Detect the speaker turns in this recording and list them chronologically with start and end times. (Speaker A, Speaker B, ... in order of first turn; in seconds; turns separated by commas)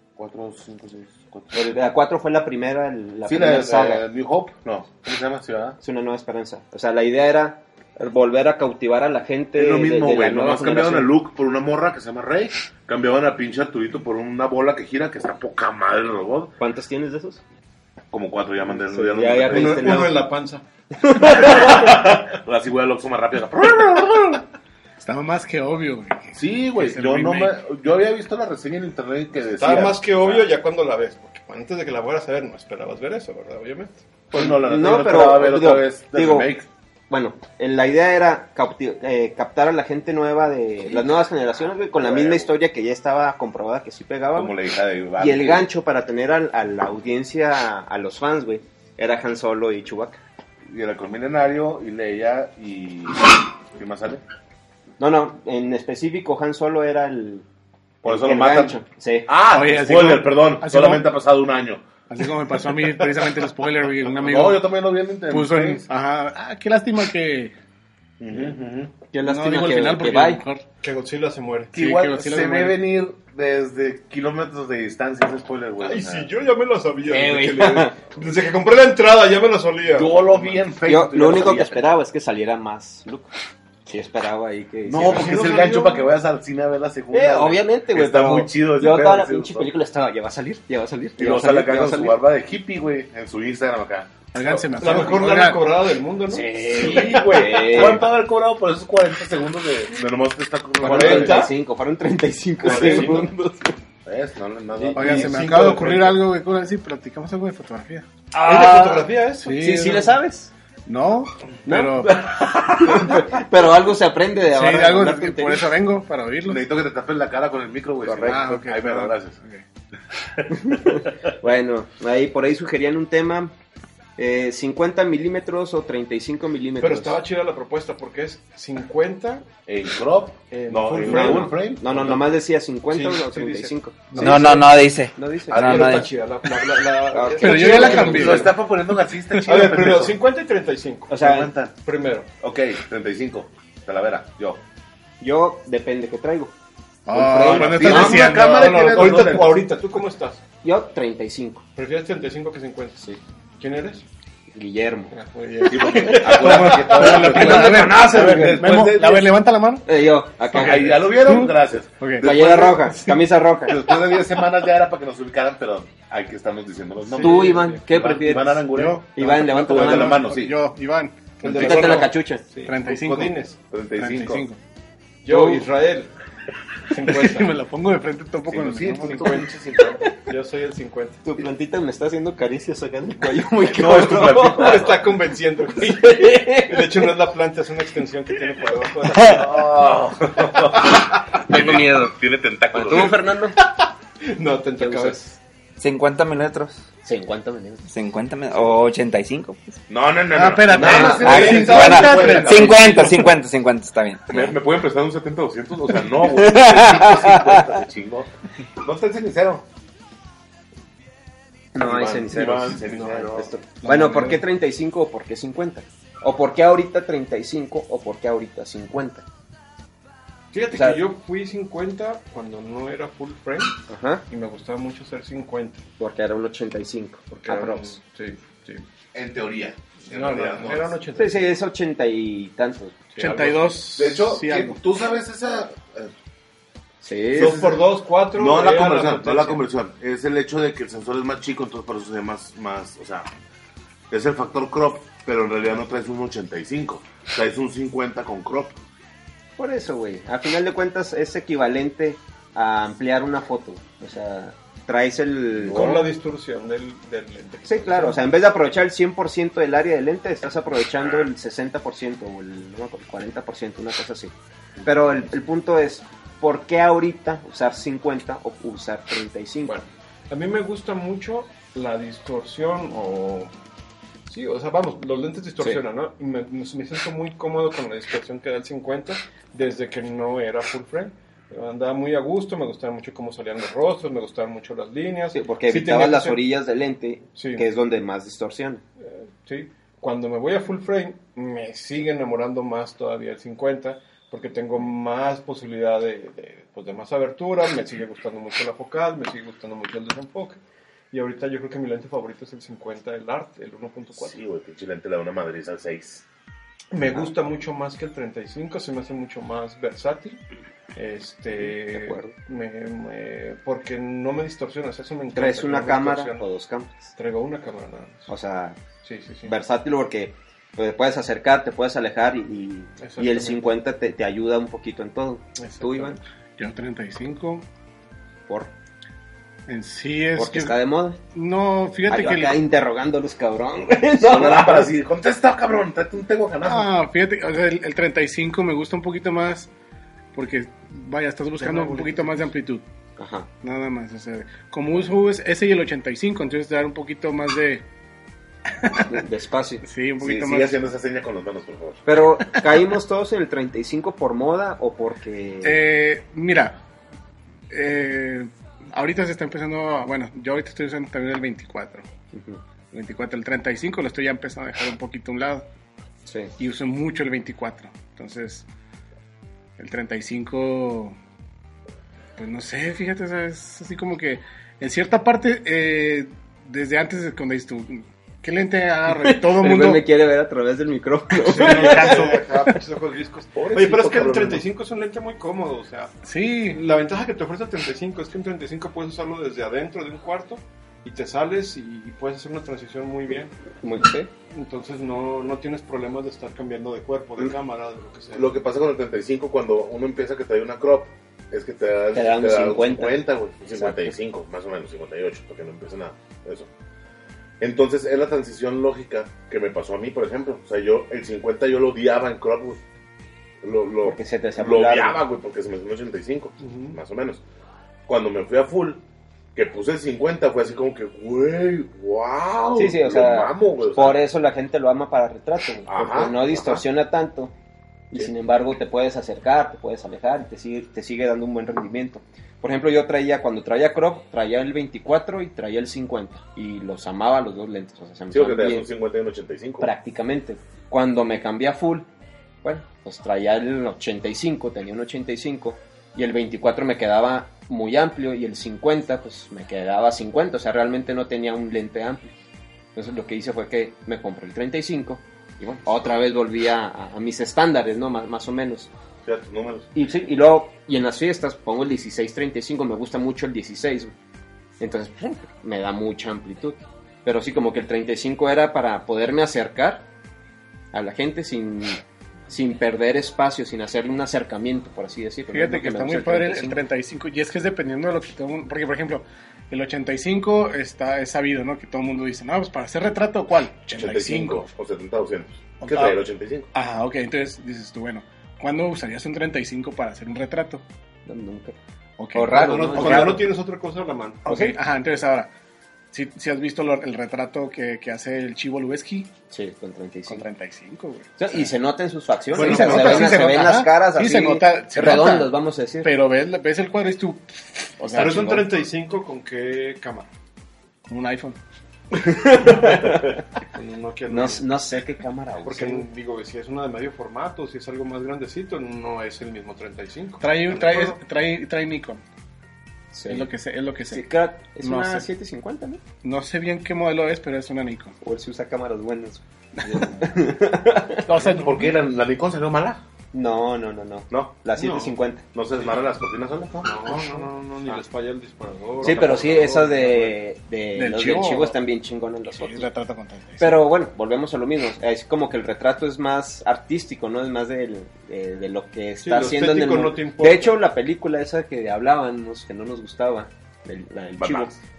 Speaker A: 0.2-1.8, Speaker B: 1.5-4.0, Speaker A: 3.2-5.8, Speaker B: 5.8-11.1, Speaker A: 9.5-16.6, Speaker B: 16.6-17.4, Speaker A: 18.1-20.2, Speaker B: 18.7-20.3, Speaker C: 19.4-20.6, Speaker B: 20.9-22.1, Speaker A: 21.3-24.4, Speaker D: 25.0-27.6, Speaker A: 26.3-30.4, Speaker C: 29.5-34.0, Speaker B: 34.3-36.5, Speaker A: 34.3-36.7, Speaker B: 37.1-44.5, Speaker A: 42.0-42.5, Speaker A: 44.3-45.7, Speaker B: 45.2-50.2, Speaker A: 50.7-54.2, Speaker B: 55.0-57.4, Speaker B: 58.0-59.3, Speaker A: 58.0-61.9, Speaker D: 59.5-61.0, Speaker D: 62.1-64.7, Speaker A: 64.0-65.8, Speaker D: 65.3-67.5, Speaker A: 68.2-68.9, Speaker B: 69.1-70.4, Speaker D: 69.2-70.6, Speaker C: 70.8-71.8, Speaker A: 71.7-76.3, Speaker D: 71.8-72.8, Speaker C: 75.8-80.3, Speaker A: 77.1-77.7, Speaker B: 77.4-78.0, Speaker A: 79.9-81.9, Speaker B: 80.8-83.3, Speaker B: 83.8-85.5, Speaker A: 84.8-89.7, Speaker C: 85.0-86.1, Speaker B: 87.1-92.2, Speaker A: 91.2-95.1, Speaker D: 94.3-95.6, Speaker C: 94.8-97.8, Speaker A: 96.3-101.5, Speaker B: 96.7-98.1, Speaker C: 100.8-101.5, Speaker B: 100.8-103.7, Speaker C: 102.6-103.3, Speaker A: 102.6-103.3, Speaker A: 104.0-105.5, Speaker C: 104.8-106.2, Speaker D: 104.9-108.0, Speaker C: 108.3-109.7, Speaker B: 108.4-109.0, Speaker D: 109.4-110.2, Speaker B: 109.6-110.5, Speaker D: 110.8-112.3, Speaker B: 111.7-115.7, Speaker A: 112.1-113.3, Speaker D: 114.5-116.6, Speaker A: 116.5-119.4, Speaker B: 118.0-118.4, Speaker D: 118.1-119.6, Speaker A: 120.2-121.2, Speaker B: 120.5-123.5, Speaker B: 124.2-127.2, Speaker C: 126.8-129.4, Speaker A: 129.7-132.2, Speaker C: 130.5-132.2, Speaker B: 131.0-134.6, Speaker C: 132.9-134.8, Speaker E: 134.2-136.2, Speaker B: 135.1-136.0, Speaker A: 135.5-136.0, Speaker C: 135.6-138.5, Speaker B: 137.1-138.5, Speaker D: 137.4-138.6, Speaker A: 138.0-140.2, Speaker C: 139.4-142.3, Speaker B: 141.1-141.5, Speaker A: 141.2-141.7, Speaker A: 142.4-144.6, Speaker B: 145.2-146.5, Speaker D: 147.1-149.4, Speaker B: 147.1-148.4, Speaker A: 147.1-149.7, Speaker C: 148.2-150.4, Speaker B: 150.6-151.7, Speaker C: 151.8-154.1, Speaker B: 154.5-155.1, Speaker C: 155.1-156.7, Speaker D: 155.5-159.8, Speaker A: 155.7-159.3, Speaker B: 156.1-158.6, Speaker B: 159.8-161.1, Speaker D: 160.5-162.3, Speaker A: 160.5-162.9, Speaker B: 162.2-163.8, Speaker D: 162.8-163.2, Speaker A: 163.7-170.6, Speaker C: 167.1-168.2, Speaker B: 167.2-170.2, Speaker D: 168.7-172.1, Speaker C: 171.4-173.6, Speaker B: 171.4-172.4, Speaker A: 171.6-172.0, Speaker D: 172.6-173.3, Speaker A: 173.7-174.4, Speaker D: 173.9-174.6, Speaker C: 175.2-176.1, Speaker B: 175.3-175.7, Speaker D: 176.9-179.5, Speaker C: 176.9-177.5, Speaker A: 178.4-180.1, Speaker C: 179.1-179.5, Speaker C: 180.1-181.4, Speaker B: 181.2-184.9, Speaker A: 183.7-185.0, Speaker C: 184.2-190.0, Speaker B: 185.8-187.1, Speaker A: 189.2-193.2, Speaker B: 191.5-192.1, Speaker B: 192.7-193.6, Speaker C: 193.6-195.4, Speaker B: 194.8-195.2, Speaker E: 195.8-196.8, Speaker B: 197.0-197.8, Speaker E: 197.8-199.8, Speaker A: 199.9-203.3, Speaker D: 200.3-202.8, Speaker B: 200.7-201.6, Speaker C: 200.8-201.9, Speaker E: 201.1-204.5, Speaker A: 204.3-209.6, Speaker E: 206.2-207.6, Speaker B: 211.7-219.2, Speaker A: 211.8-213.5, Speaker C: 212.7-214.4, Speaker D: 213.8-214.4, Speaker C: 220.5-225.8, Speaker B: 220.7-221.0, Speaker B: 223.9-224.2, Speaker B: 226.0-228.0, Speaker C: 227.4-228.8, Speaker A: 229.1-230.9, Speaker C: 230.0-231.5, Speaker B: 231.2-233.0, Speaker C: 233.1-233.7, Speaker D: 233.2-234.8, Speaker A: 233.9-236.1, Speaker B: 237.0-237.7, Speaker A: 237.3-237.8, Speaker C: 237.3-239.6, Speaker A: 238.3-243.3, Speaker A: 244.1-248.8, Speaker B: 249.6-256.1, Speaker A: 255.6-256.0, Speaker C: 255.7-258.2, Speaker B: 257.6-264.3, Speaker B: 264.8-269.8, Speaker C: 269.7-273.5, Speaker C: 274.3-286.4, Speaker B: 285.3-288.8, Speaker C: 287.3-287.6, Speaker C: 289.0-300.6, Speaker C: 301.1-304.4, Speaker A: 304.1-306.2, Speaker C: 306.9-310.4, Speaker C: 310.9-316.4, Speaker B: 311.6-312.4, Speaker B: 315.3-317.1, Speaker C: 317.1-318.3, Speaker B: 318.3-318.9, Speaker C: 319.0-319.6, Speaker B: 319.4-326.2, Speaker C: 323.0-323.6, Speaker C: 325.6-326.1, Speaker D: 326.6-327.6, Speaker D: 329.7-330.7, Speaker B: 330.4-331.2, Speaker D: 331.3-332.6, Speaker B: 332.1-334.9, Speaker A: 334.2-336.9, Speaker D: 336.6-339.7, Speaker D: 340.3-342.8, Speaker B: 341.6-342.1, Speaker B: 343.2-343.5, Speaker D: 343.6-347.8, Speaker B: 349.1-349.8, Speaker D: 349.8-350.7, Speaker A: 350.2-352.1, Speaker B: 352.1-355.8, Speaker D: 355.6-356.8, Speaker D: 357.7-362.0, Speaker B: 362.3-362.6, Speaker D: 362.9-365.6, Speaker B: 366.3-366.5, Speaker D: 366.6-368.6, Speaker D: 369.8-371.1, Speaker D: 372.4-380.0, Speaker B: 379.1-382.3, Speaker C: 381.4-386.1, Speaker D: 381.5-382.3, Speaker A: 383.5-384.6, Speaker D: 386.2-386.8, Speaker C: 386.7-393.5, Speaker B: 393.8-394.3, Speaker C: 394.5-398.5, Speaker A: 398.3-406.7, Speaker B: 402.1-403.2, Speaker B: 403.7-404.1, Speaker A: 407.6-412.8, Speaker A: 413.6-417.4, Speaker B: 414.0-415.2, Speaker C: 416.6-417.0, Speaker A: 418.1-419.0, Speaker A: 419.5-424.2, Speaker B: 422.7-427.5, Speaker A: 425.9-426.8, Speaker B: 428.1-438.9, Speaker A: 438.3-439.9, Speaker B: 439.8-442.1, Speaker B: 442.6-452.3, Speaker B: 452.9-458.9, Speaker A: 459.2-459.9, Speaker B: 459.9-464.1, Speaker B: 464.8-470.1, Speaker B: 470.9-476.8, Speaker D: 475.5-484.6, Speaker A: 483.9-486.7, Speaker D: 485.8-486.2, Speaker D: 486.7-490.8, Speaker B: 491.2-491.8, Speaker D: 492.2-493.4, Speaker B: 492.3-493.4, Speaker C: 492.5-494.5, Speaker D: 494.4-495.5, Speaker B: 494.5-494.8, Speaker D: 496.1-499.3, Speaker B: 499.5-500.4, Speaker D: 500.3-501.7, Speaker B: 501.4-506.1, Speaker D: 502.5-508.7, Speaker C: 502.6-503.4, Speaker C: 508.1-510.3, Speaker B: 508.1-508.4, Speaker D: 511.1-511.6, Speaker B: 512.1-513.4, Speaker C: 513.7-514.6, Speaker B: 514.3-516.1, Speaker C: 515.6-521.2, Speaker D: 520.4-522.2, Speaker B: 523.1-523.5, Speaker D: 523.3-525.3, Speaker B: 524.1-526.0, Speaker D: 526.2-528.1, Speaker B: 528.2-531.3, Speaker D: 529.8-530.1, Speaker D: 531.3-531.9, Speaker A: 531.3-533.0, Speaker B: 533.3-535.4, Speaker A: 534.3-534.6, Speaker C: 534.7-535.1, Speaker A: 535.5-537.2, Speaker C: 536.8-540.4, Speaker B: 539.0-542.9, Speaker A: 539.0-539.6, Speaker D: 540.9-541.8, Speaker D: 542.5-543.8, Speaker B: 543.6-554.8, Speaker C: 549.2-550.8, Speaker A: 554.4-554.7